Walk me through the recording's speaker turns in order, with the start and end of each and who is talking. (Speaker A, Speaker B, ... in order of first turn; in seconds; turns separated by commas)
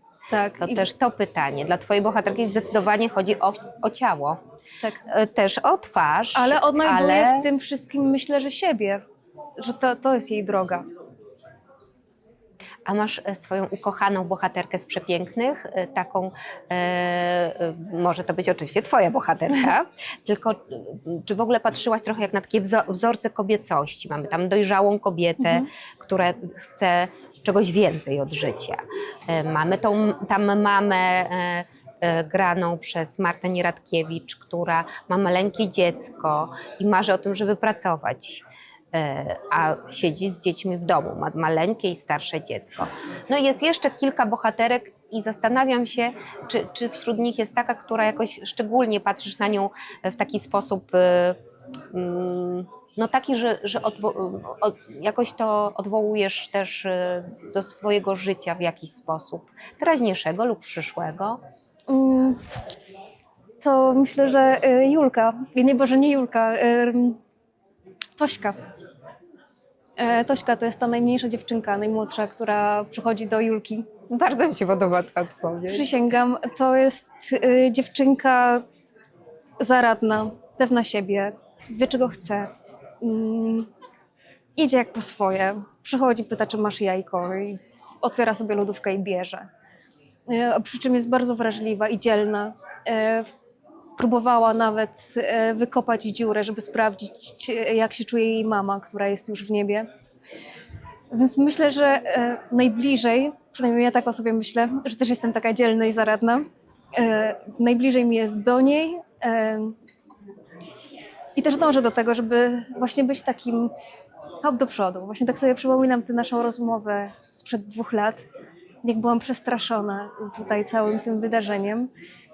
Speaker A: 0.3-0.8, Speaker B: 0.6-4.4, Speaker B: 5.1-7.5, Speaker A: 6.3-9.0, Speaker A: 9.6-10.9, Speaker B: 12.9-51.4, Speaker B: 51.9-61.4, Speaker A: 61.9-62.4, Speaker A: 63.6-67.2, Speaker A: 68.2-68.6, Speaker A: 70.0-73.9, Speaker B: 74.1-76.0, Speaker A: 75.7-78.6, Speaker A: 79.6-82.5, Speaker A: 83.0-83.7, Speaker A: 84.6-89.5, Speaker A: 90.3-93.3, Speaker A: 94.0-99.9, Speaker A: 101.1-109.8, Speaker A: 111.4-113.7, Speaker A: 114.4-118.2, Speaker A: 118.8-121.9